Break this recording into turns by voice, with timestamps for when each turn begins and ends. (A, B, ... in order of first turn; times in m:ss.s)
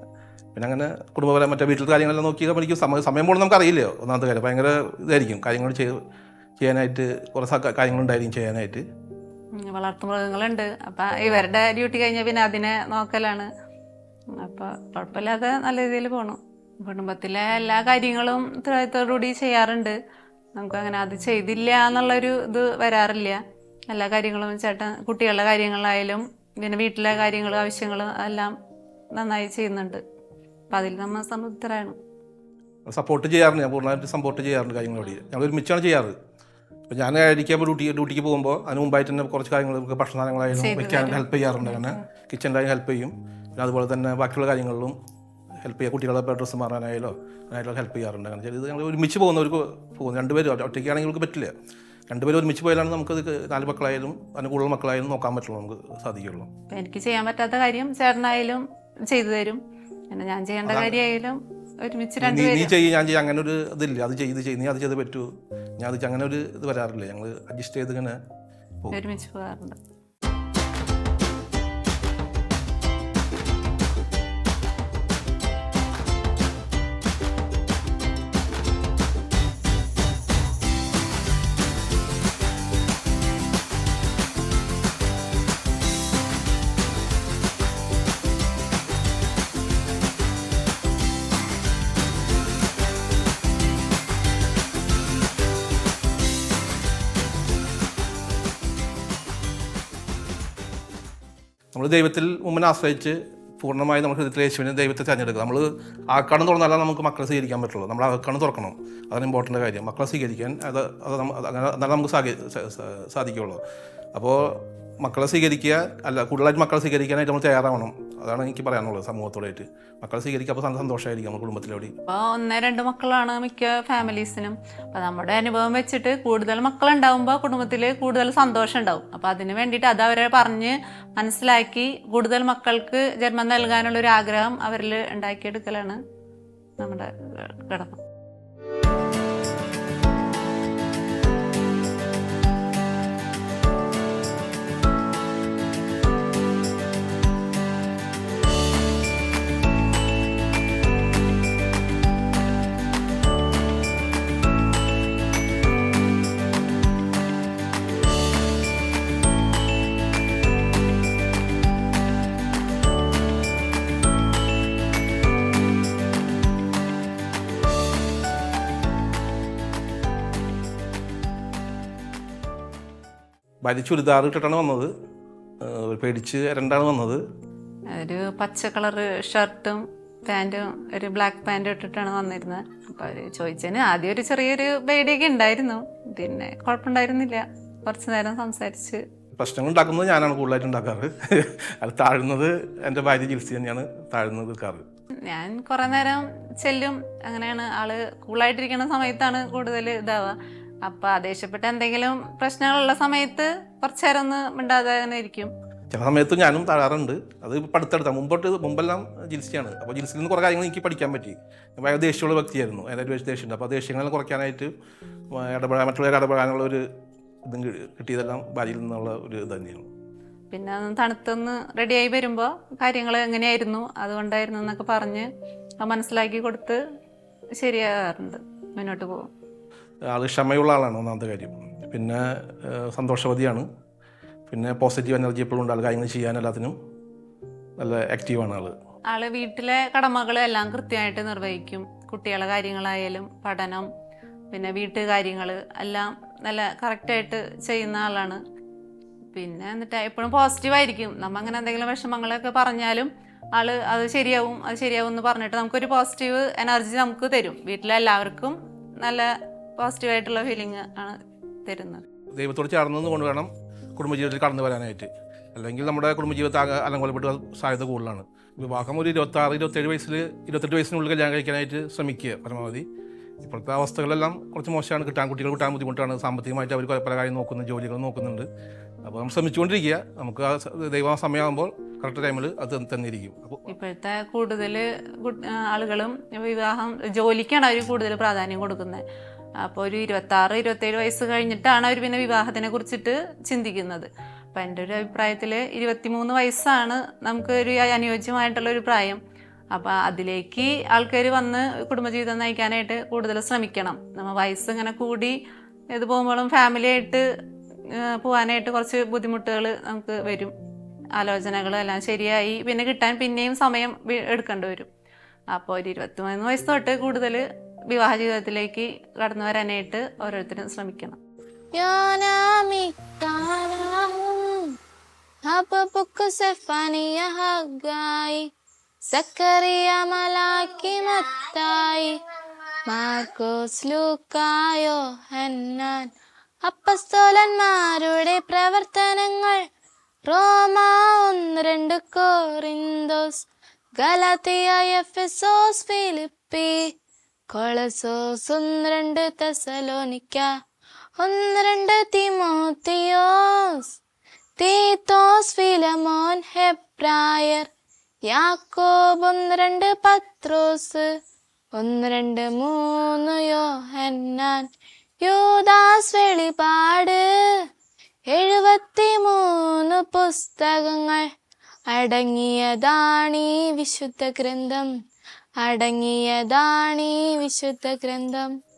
0:00.5-0:06.0 A
0:06.6-0:08.8 A
0:09.6-0:13.5 B
0:14.4-0:20.0 B
0:20.5-0:28.5 B
0:29.1-0:30.0 B
0:30.7-0:32.0 B
0:32.9-0:36.1 A
0:36.9-0:45.0 A
0:40.6-0:42.0 B
0:45.6-0:51.5 A
0:52.1-0:56.5 A
0:56.7-1:02.7 B
1:00.6-1:01.0 A
1:02.2-1:05.3 A
1:05.8-1:08.2 A
1:08.9-1:09.8 B
1:41.7-1:53.6 A
1:54.1-2:01.9 A
2:02.1-2:16.0 B
2:16.8-2:18.0 B
2:53.6-2:54.9 A
2:55.6-2:57.2 A
2:57.9-3:09.0 B
3:09.4-3:14.8 A
3:15.2-3:25.5 B
3:25.9-3:34.7 A
3:35.3-3:36.8 A
3:37.4-3:39.9 A
3:40.5-3:45.3 B
3:45.8-3:46.8 B
3:47.6-3:49.3 B
3:50.1-3:53.6 A
3:54.5-3:56.8 A
3:57.8-3:58.7 A
3:59.1-4:03.9 B
4:04.5-4:08.4 B
4:09.3-4:22.0 B
4:22.3-4:32.8 A
4:33.4-4:38.4 A
4:39.0-4:43.7 A
4:43.7-4:49.0 B
4:49.6-4:59.2 B
4:59.7-5:05.4 B
5:05.9-5:07.2 B
5:07.9-5:10.5 B
5:11.2-5:14.9 B
5:15.5-5:21.2 B
5:21.8-5:24.7 C
5:25.5-5:28.5 C
5:29.1-5:32.2 C
5:32.9-5:36.1 C
5:36.6-5:39.6 C
5:40.2-5:43.4 C
5:44.0-5:46.9 C
5:47.5-5:50.5 C
5:51.2-5:53.9 C
5:54.6-5:57.7 C
5:58.3-6:01.1 C
6:01.8-6:04.7 C
6:05.2-6:07.6 C
6:08.3-6:11.2 C
6:11.9-6:14.9 C
6:15.6-6:18.5 C